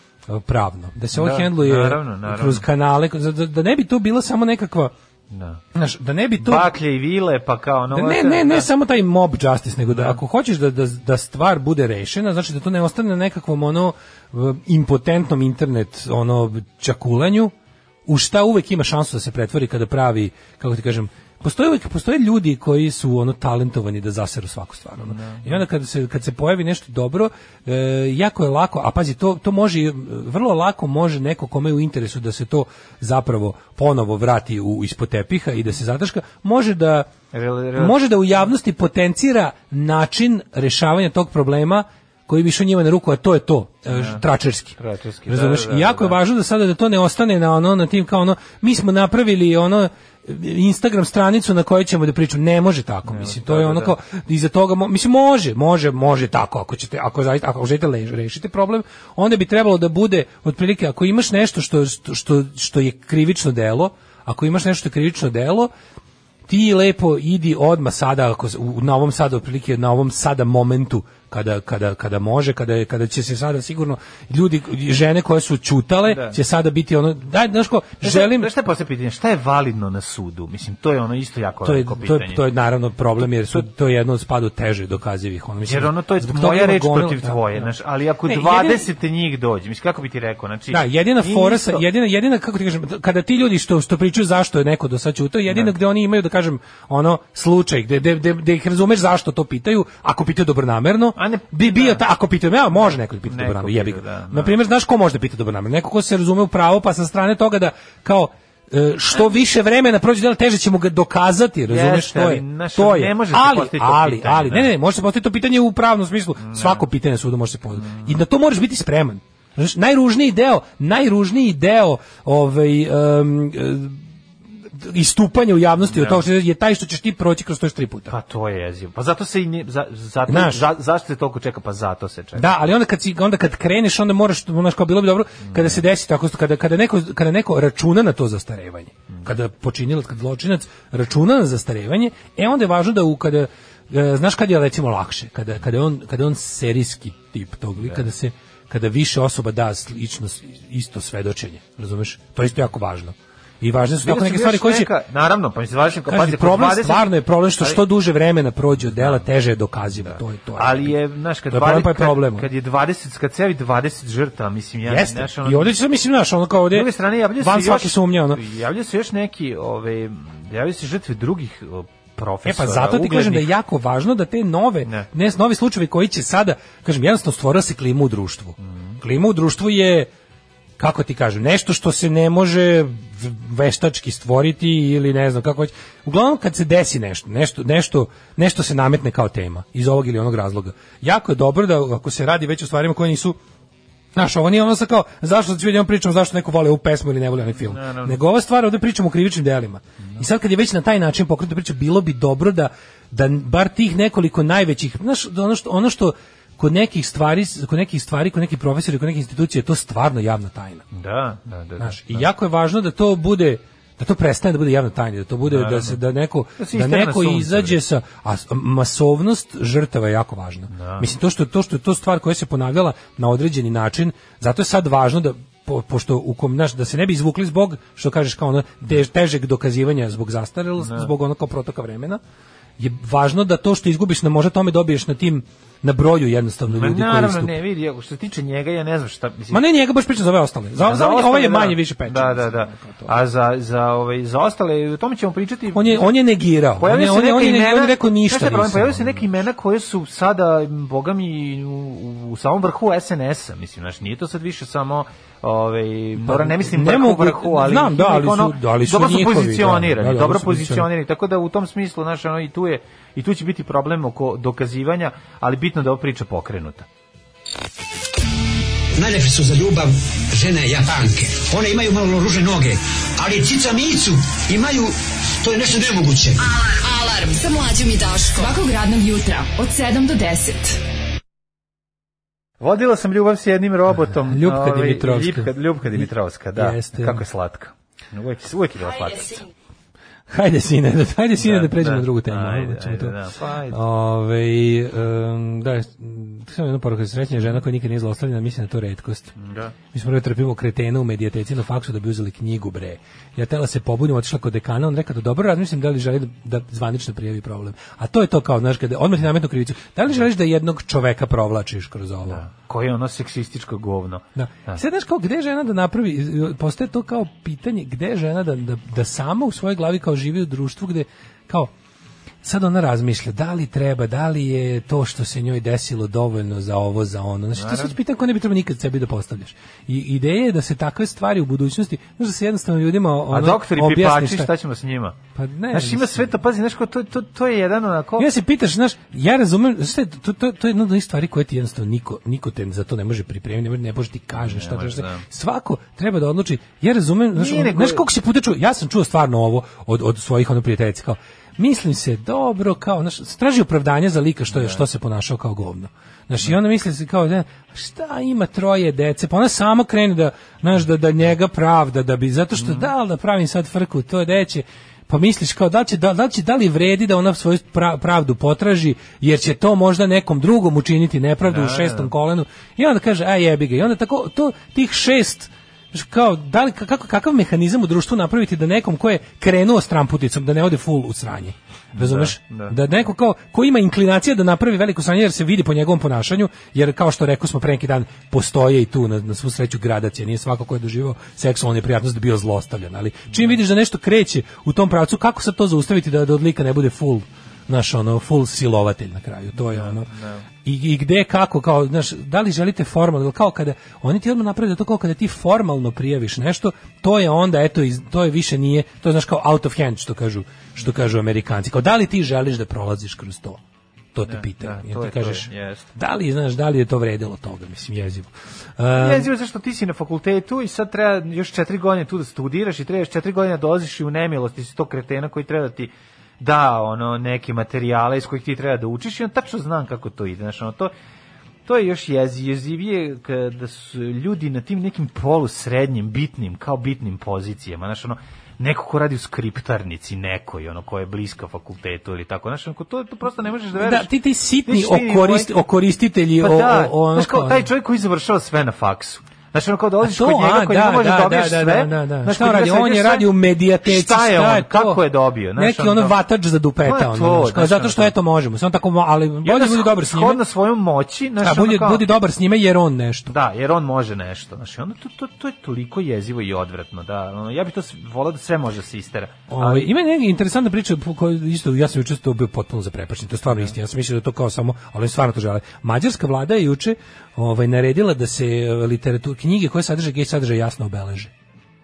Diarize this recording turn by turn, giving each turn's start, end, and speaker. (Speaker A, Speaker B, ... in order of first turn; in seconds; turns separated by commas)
Speaker A: 0.3-4.9, Speaker B: 1.1-2.6, Speaker B: 5.3-5.6, Speaker A: 5.7-6.7, Speaker B: 6.4-8.7, Speaker A: 7.9-17.5, Speaker B: 9.9-10.2, Speaker A: 18.1-37.1, Speaker B: 25.0-25.6, Speaker B: 37.3-38.0, Speaker A: 37.8-65.7, Speaker B: 43.9-44.2, Speaker B: 44.8-46.2, Speaker B: 53.1-54.0, Speaker A: 66.5-78.5, Speaker B: 76.0-76.4, Speaker B: 78.0-82.5, Speaker A: 81.6-87.7, Speaker B: 85.7-91.8, Speaker A: 88.2-88.9, Speaker A: 90.7-124.0, Speaker B: 101.2-102.0, Speaker B: 103.3-104.6, Speaker B: 111.7-114.7, Speaker B: 116.4-116.8, Speaker B: 117.8-118.2, Speaker A: 124.7-128.2, Speaker B: 125.8-126.2, Speaker B: 128.1-132.7, Speaker A: 130.3-130.7, Speaker A: 132.3-154.9, Speaker B: 135.5-135.8, Speaker B: 154.0-157.8, Speaker A: 156.1-161.0, Speaker B: 158.9-159.2, Speaker B: 160.0-165.8, Speaker A: 161.5-162.5, Speaker A: 164.8-168.4, Speaker B: 166.7-173.5, Speaker A: 172.4-180.1, Speaker B: 174.8-175.1, Speaker B: 178.6-179.0, Speaker A: 180.8-193.4, Speaker A: 194.2-210.8, Speaker B: 197.7-198.2, Speaker B: 210.9-212.3, Speaker A: 211.8-232.2, Speaker B: 215.5-216.0, Speaker B: 216.6-217.8, Speaker B: 220.7-221.1, Speaker B: 230.8-231.1, Speaker A: 232.8-237.6, Speaker B: 236.7-239.6, Speaker A: 239.5-243.1, Speaker B: 240.8-246.1, Speaker A: 245.7-249.2, Speaker B: 246.8-266.9, Speaker A: 256.2-260.9, Speaker C: 269.0-276.4, Speaker D: 276.4-280.8, Speaker B: 282.6-289.4, Speaker A: 284.1-287.2, Speaker A: 290.3-299.3, Speaker B: 291.4-293.8, Speaker B: 299.4-299.7, Speaker A: 299.9-312.4, Speaker B: 312.2-314.8, Speaker A: 314.4-321.7, Speaker A: 322.4-334.5, Speaker B: 327.6-327.9, Speaker B: 333.3-335.2, Speaker A: 335.4-336.3, Speaker B: 335.7-338.3, Speaker A: 338.2-413.6, Speaker B: 344.4-345.2, Speaker B: 347.4-348.1, Speaker B: 354.5-354.8, Speaker B: 362.6-362.9, Speaker B: 371.4-372.1, Speaker B: 381.9-382.8, Speaker B: 393.3-393.6, Speaker B: 399.6-400.5, Speaker A: 414.1-419.3, Speaker B: 414.2-415.9, Speaker B: 418.9-430.9, Speaker B: 431.7-444.1, Speaker A: 443.8-447.7, Speaker B: 444.6-445.5, Speaker B: 446.4-453.3, Speaker A: 450.0-455.0, Speaker B: 453.8-456.2, Speaker A: 455.6-460.4, Speaker B: 456.8-458.1, Speaker B: 459.4-462.1, Speaker A: 461.4-463.4, Speaker B: 463.3-469.9, Speaker A: 469.5-481.3